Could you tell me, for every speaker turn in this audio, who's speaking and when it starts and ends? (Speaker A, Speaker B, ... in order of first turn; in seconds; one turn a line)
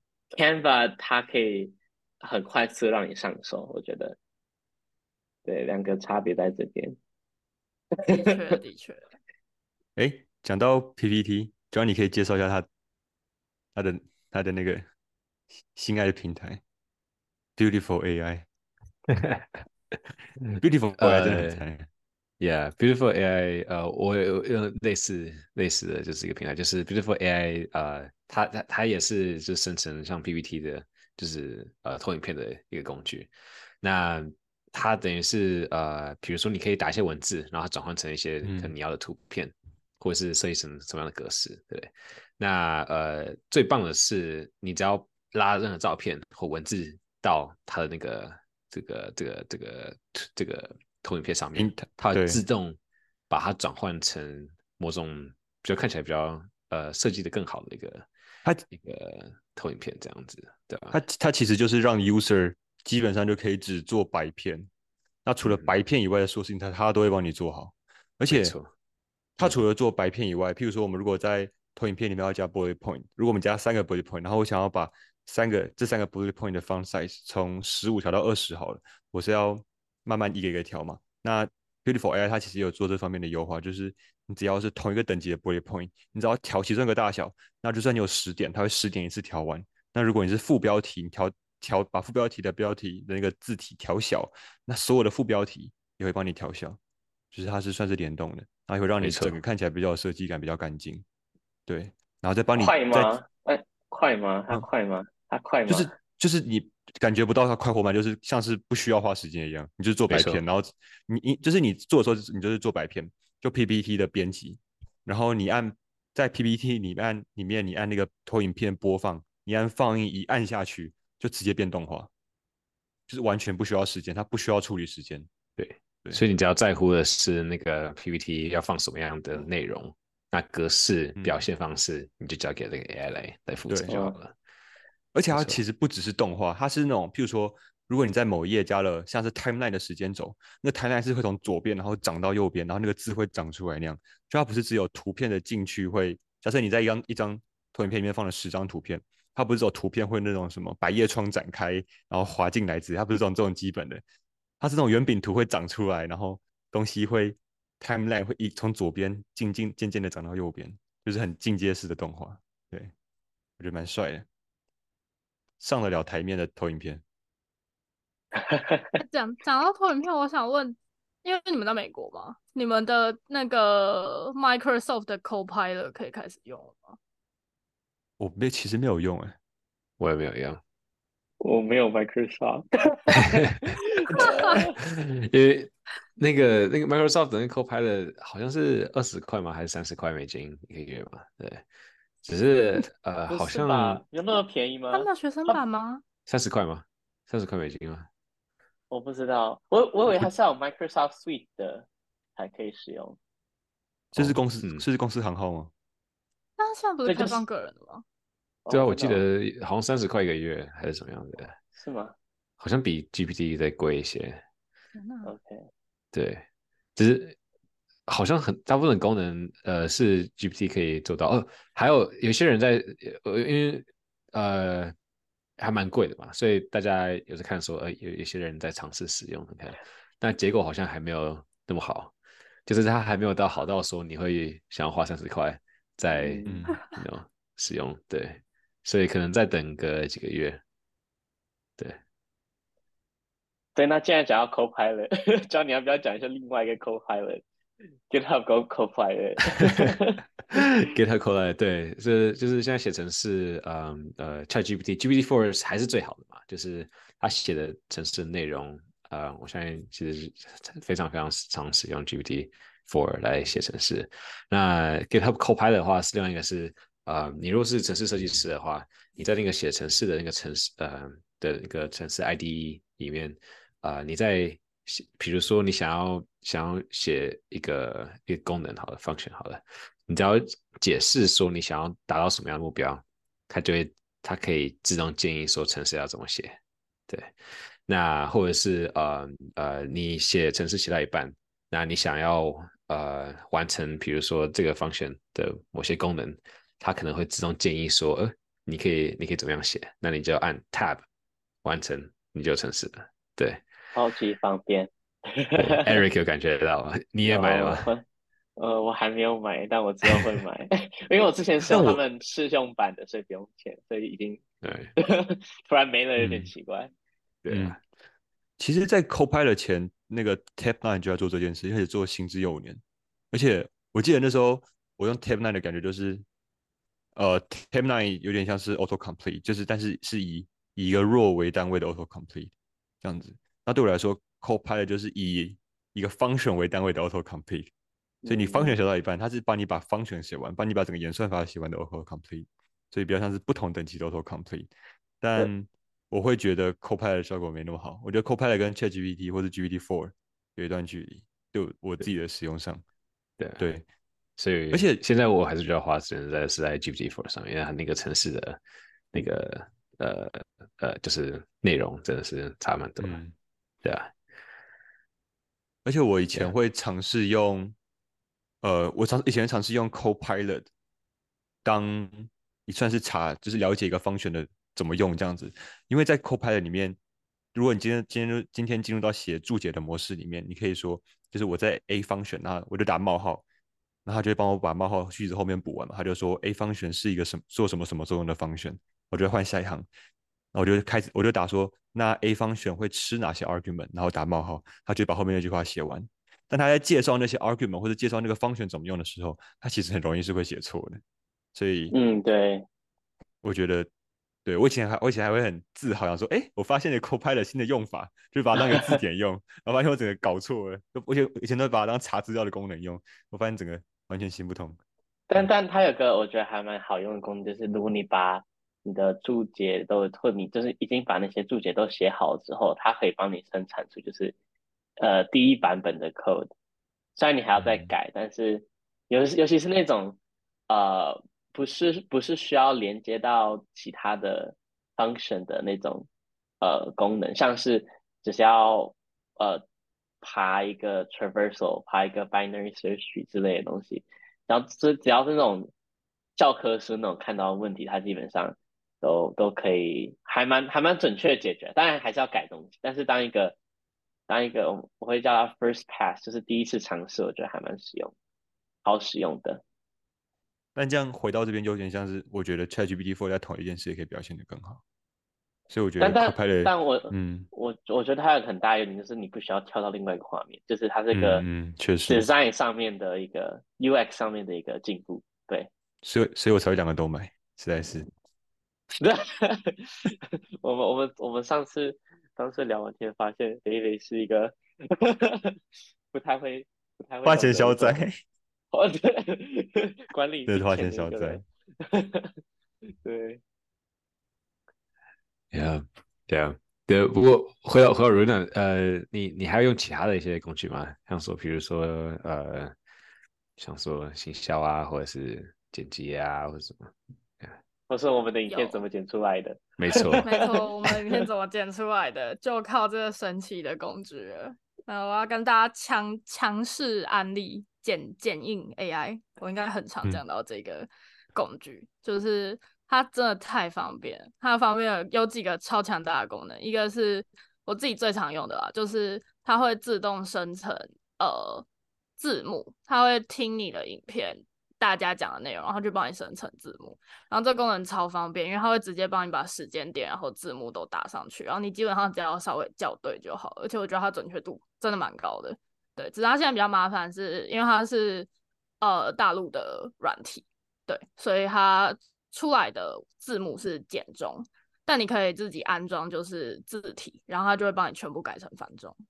Speaker A: 0.3-4.2
Speaker A: 5.4-7.0
Speaker B: 8.1-9.1
Speaker C: 9.9-12.7
Speaker C: 13.7-14.9
Speaker C: 15.7-16.6
Speaker C: 17.6-18.4
Speaker D: 19.1-19.6
Speaker D: 20.5-21.6
Speaker C: 20.5-21.9
Speaker D: 22.4-52.8
Speaker C: 38.4-38.7
Speaker C: 51.5-52.4
Speaker D: 53.3-58.1
Speaker D: 58.7-61.0
Speaker C: 60.9-64.7
Speaker C: 65.2-68.5
Speaker D: 65.4-65.7
Speaker D: 68.3-68.7
Speaker C: 69.4-96.8
Speaker C: 97.3-101.0
Speaker D: 99.0-99.4
Speaker C: 101.7-103.1
Speaker A: 102.5-105.9
Speaker C: 105.7-122.1
Speaker D: 110.1-110.4
Speaker C: 123.1-125.3
Speaker D: 125.6-134.3
Speaker C: 131.2-131.4
Speaker C: 133.7-134.0
Speaker A: 133.9-134.2
Speaker C: 135.1-154.0
Speaker D: 135.3-135.6
Speaker C: 154.6-162.9
Speaker C: 163.6-164.2
Speaker C: 165.6-167.0
Speaker A: 168.4-169.0
Speaker B: 169.0-177.0
Speaker C: 178.2-179.3
Speaker D: 180.0-180.6
Speaker A: 181.4-184.7
Speaker B: 184.2-184.6
Speaker D: 184.8-191.6
Speaker D: 192.2-194.0
Speaker A: 193.3-195.6
Speaker B: 194.9-196.0
Speaker D: 196.3-198.1
Speaker A: 198.9-203.2
Speaker C: 204.1-205.7
Speaker D: 204.1-204.8
Speaker B: 206.6-208.0
Speaker A: 207.1-207.4
Speaker A: 208.6-209.3
Speaker D: 208.7-211.6
Speaker A: 211.8-212.2
Speaker D: 212.6-214.4
Speaker B: 214.9-215.3
Speaker A: 215.2-215.6
Speaker D: 216.1-216.4
Speaker D: 216.9-217.4
Speaker D: 218.1-224.9
Speaker D: 225.6-232.1
Speaker D: 232.7-240.6
Speaker A: 236.1-236.6
Speaker C: 236.4-236.8
Speaker A: 243.7-247.4
Speaker A: 248.1-250.2
Speaker D: 250.5-301.0
Speaker D: 301.6-303.6
Speaker A: 303.9-306.0
Speaker D: 305.6-307.9
Speaker A: 307.2-308.0
Speaker A: 308.6-314.4
Speaker C: 311.7-312.0
Speaker D: 314.6-314.9
Speaker A: 315.0-316.9
Speaker C: 316.2-316.5
Speaker D: 317.4-317.8
Speaker C: 317.5-317.8
Speaker C: 318.6-322.8
Speaker C: 323.3-326.2
Speaker C: 327.1-337.7
Speaker A: 338.2-338.8
Speaker C: 338.3-344.7
Speaker C: 345.2-352.8
Speaker D: 353.4-353.6
Speaker C: 353.6-353.8
Speaker D: 354.4-358.6
Speaker C: 354.7-355.0
Speaker D: 359.1-363.2
Speaker C: 363.0-363.3
Speaker D: 363.8-364.1
Speaker C: 365.8-367.7
Speaker C: 368.6-370.7
Speaker C: 371.6-377.0
Speaker C: 377.5-383.4
Speaker C: 384.0-389.9
Speaker C: 390.5-401.0
Speaker C: 401.5-401.9
Speaker A: 401.9-402.6
Speaker C: 403.4-403.9
Speaker C: 404.4-414.8
Speaker A: 408.5-409.0
Speaker A: 415.3-424.3
Speaker A: 425.0-426.5
Speaker A: 427.1-430.2
Speaker C: 427.6-427.9
Speaker A: 430.7-436.1
Speaker A: 436.6-439.6
Speaker A: 440.2-445.7
Speaker A: 446.4-453.6
Speaker A: 454.3-458.1
Speaker A: 458.8-459.6
Speaker C: 460.7-464.8
Speaker C: 465.7-467.5
Speaker A: 466.0-471.4
Speaker C: 471.1-472.3
Speaker A: 472.1-475.7
Speaker C: 476.0-478.1
Speaker A: 479.0-485.6
Speaker A: 486.1-488.0
Speaker C: 487.2-488.2
Speaker A: 488.7-492.3
Speaker C: 490.5-491.4
Speaker A: 493.0-493.4
Speaker D: 495.5-502.7
Speaker D: 503.6-507.6
Speaker A: 507.9-510.6
Speaker B: 508.5-508.8
Speaker D: 509.8-510.3
Speaker B: 510.2-531.6
Speaker B: 532.2-548.3
Speaker B: 548.8-559.0